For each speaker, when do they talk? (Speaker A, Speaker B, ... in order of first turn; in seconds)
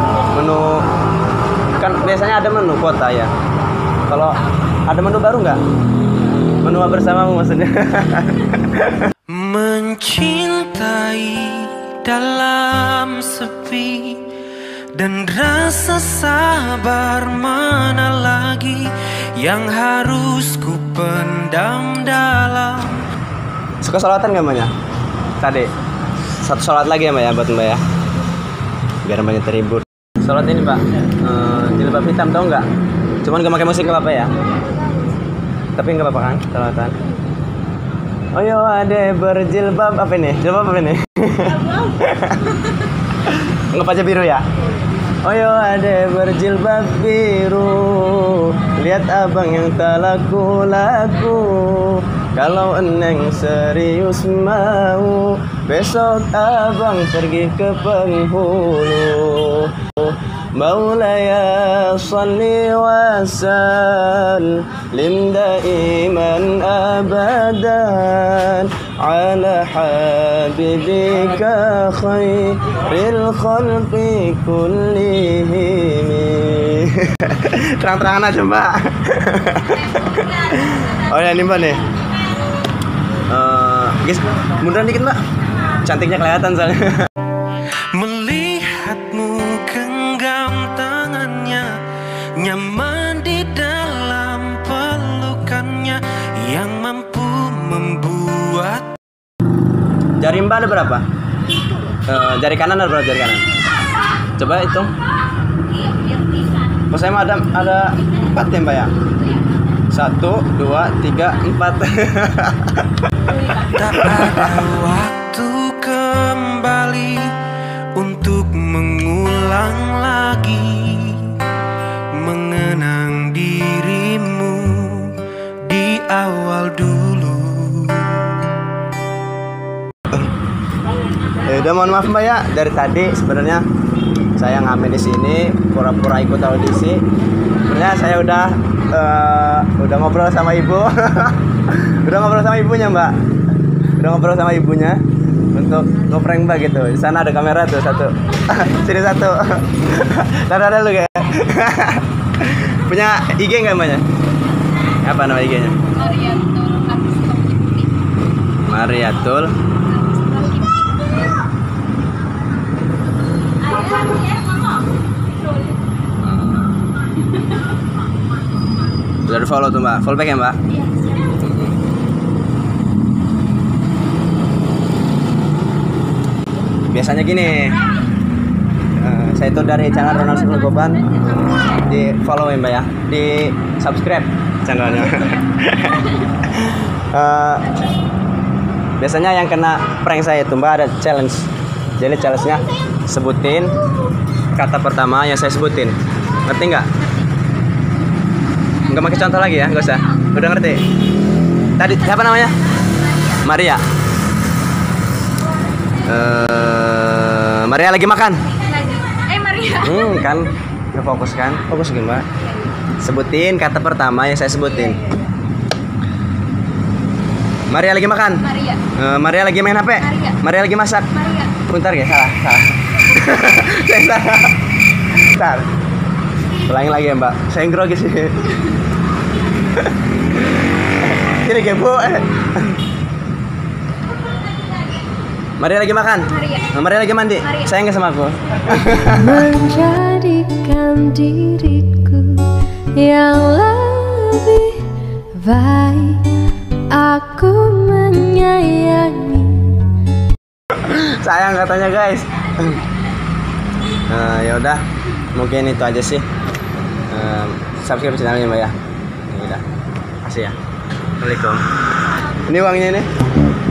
Speaker A: 0.3-0.8, 1.8-3.3, 4.1-5.6, 6.6-9.1, 23.8-24.7, 25.4-25.7, 26.4-27.8, 29.0-32.7, 33.2-34.3, 35.8-37.0, 38.4-44.5, 45.2-81.8, 83.3-85.2, 85.8-86.9, 100.2-101.0, 102.1-103.5, 104.4-104.9, 106.9-108.9, 109.9-112.8, 113.9-114.3, 131.4-133.6, 134.4-137.0, 137.7-143.2, 144.0-145.0, 145.5-154.1, 155.0-156.0, 158.7-159.6, 166.2-166.8, 169.2-171.8, 176.9-177.8, 178.9-187.8, 189.0-193.8, 194.6-196.9, 198.9-200.8, 201.8-202.7, 203.3-203.8, 206.0-208.5, 209.6-212.3, 213.0-215.1, 217.7-224.6, 225.2-225.7, 226.7-228.6, 230.5-232.8, 235.6-239.5, 250.8-252.8, 254.1-254.8, 255.3-256.3, 257.1-258.8, 259.3-259.6, 260.2-260.6, 261.2-261.6, 262.5-263.1
Speaker B: 9.3-14.2, 15.0-18.8, 19.4-23.0, 88.0-91.7, 92.4-98.9, 113.5-117.3, 118.0-121.2, 122.2-125.1, 125.7-128.3
Speaker C: 156.1-157.8, 160.1-161.1, 163.7-164.5, 208.7-209.7
Speaker D: 239.2-246.3, 246.9-249.9